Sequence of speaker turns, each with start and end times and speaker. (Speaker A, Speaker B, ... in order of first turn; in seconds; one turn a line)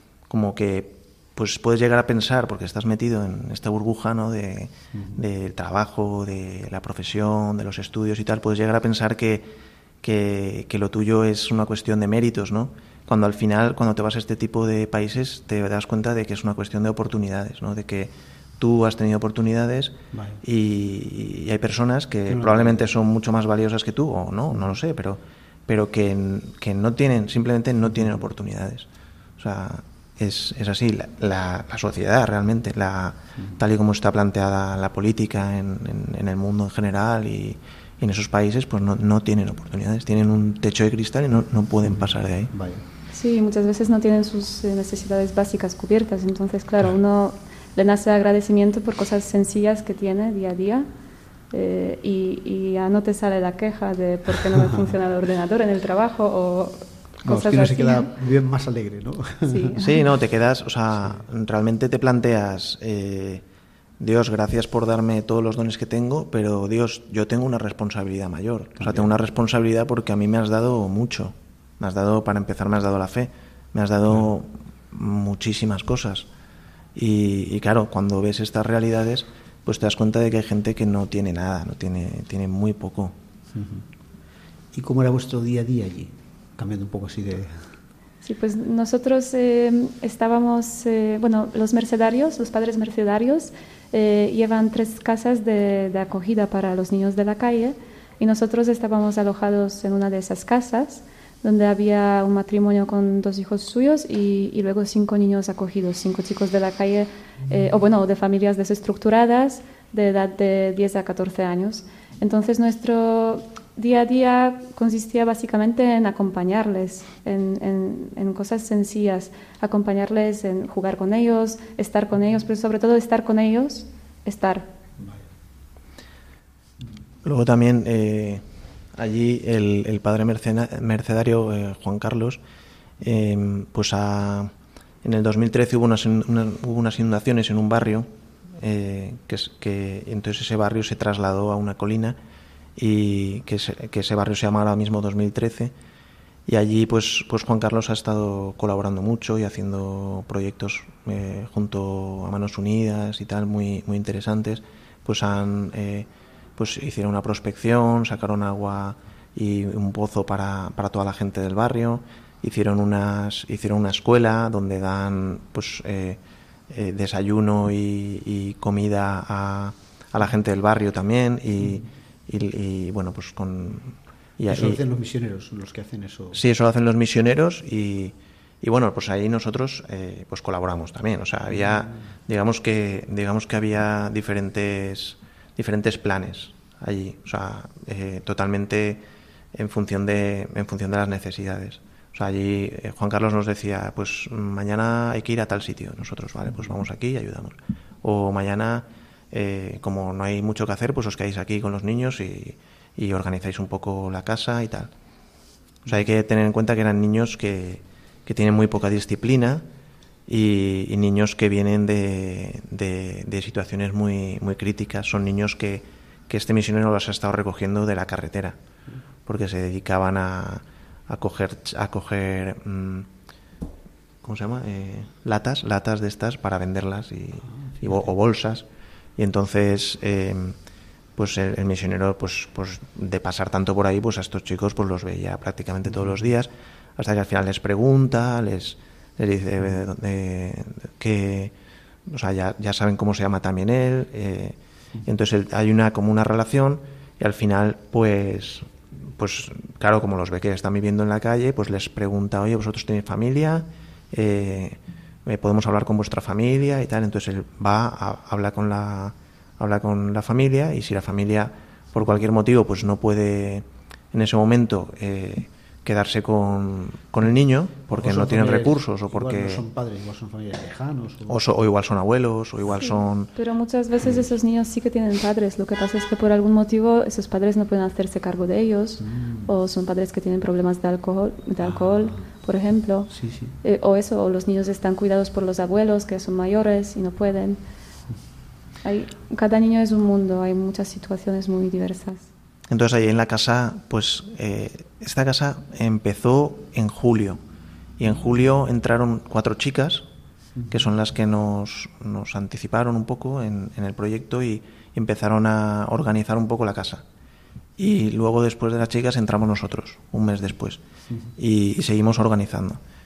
Speaker A: 0.3-9.5
Speaker B: 4.9-5.2
Speaker A: 10.0-28.9
Speaker B: 20.1-20.4
Speaker B: 22.3-22.9
Speaker B: 27.9-28.2
Speaker A: 29.4-42.5
Speaker B: 41.9-42.8
Speaker C: 43.1-50.9
Speaker C: 51.5-58.1
Speaker B: 57.2-59.7
Speaker C: 59.5-60.0
Speaker A: 59.8-63.4
Speaker A: 64.0-76.3
Speaker B: 68.8-69.1
Speaker A: 77.0-83.2
Speaker B: 83.5-83.8
Speaker B: 84.7-87.7
Speaker C: 88.2-124.7
Speaker A: 127.2-128.4
Speaker A: 128.9-132.4
Speaker A: 133.0-134.5
Speaker A: 135.0-138.1
Speaker A: 138.6-142.2
Speaker A: 142.8-145.7
Speaker A: 146.5-166.2
Speaker A: 166.7-174.8
Speaker B: 174.5-176.4
Speaker A: 176.3-189.0
Speaker B: 181.5-181.9
Speaker A: 189.5-204.9
Speaker A: 205.9-209.6
Speaker A: 210.3-218.6
Speaker A: 219.3-223.1
Speaker A: 224.2-228.7
Speaker B: 227.5-228.0
Speaker A: 229.2-230.6
Speaker A: 231.2-241.5
Speaker B: 235.9-236.2
Speaker A: 242.1-269.6
Speaker B: 267.9-271.4
Speaker A: 271.3-273.3
Speaker C: 272.7-283.1
Speaker B: 279.0-279.5
Speaker B: 281.6-282.1
Speaker B: 283.1-283.5
Speaker C: 283.6-287.6
Speaker C: 288.8-292.3
Speaker A: 292.7-297.4
Speaker A: 298.0-300.1
Speaker B: 300.6-300.9
Speaker A: 300.7-307.0
Speaker A: 307.8-310.8
Speaker A: 311.4-312.8